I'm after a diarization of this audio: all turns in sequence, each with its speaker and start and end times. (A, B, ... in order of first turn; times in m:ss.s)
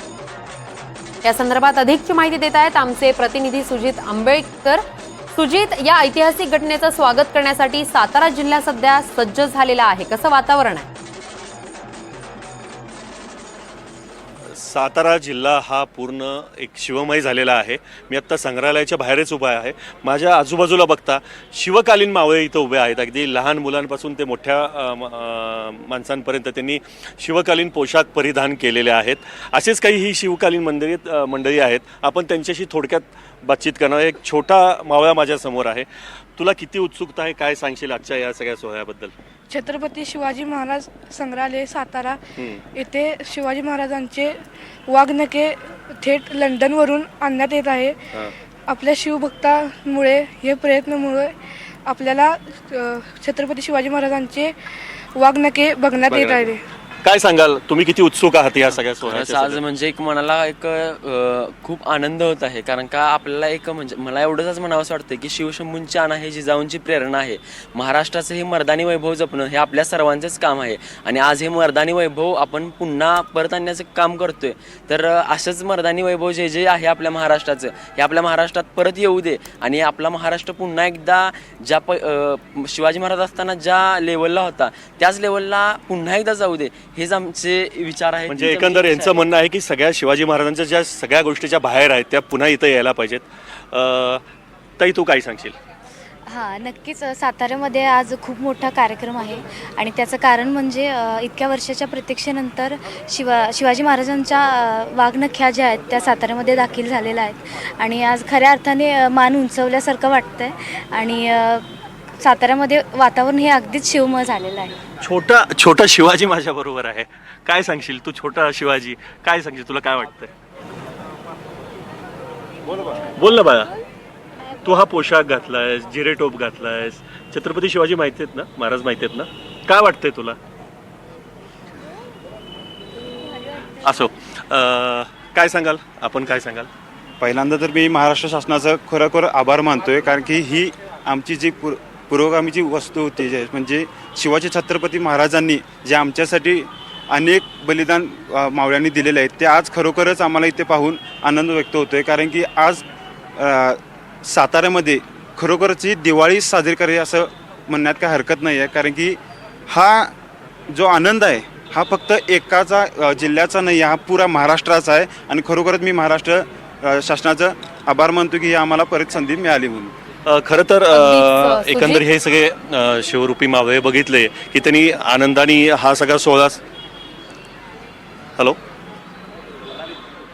0:01.2-0:10.9 A
0:14.5-0:39.1 B
0:39.5-0:42.2 C
0:42.4-0:42.6 B
0:42.7-0:44.4 C
0:44.9-0:48.1 C
0:48.7-0:54.5 C
0:55.2-0:56.6 C
0:56.0-0:59.6 B
0:59.0-1:29.3 D
1:28.3-1:34.2 B
1:34.8-1:35.6 B
1:36.3-1:51.6 E
1:52.2-1:54.8 E
1:55.0-2:00.3 B
2:03.2-2:03.7 B
2:04.6-2:10.4 B
2:13.8-2:16.7 B
2:17.2-2:32.8 F
2:33.4-2:40.1 F
2:40.7-2:49.9 F
2:50.3-2:56.6 B
2:50.9-2:52.0 A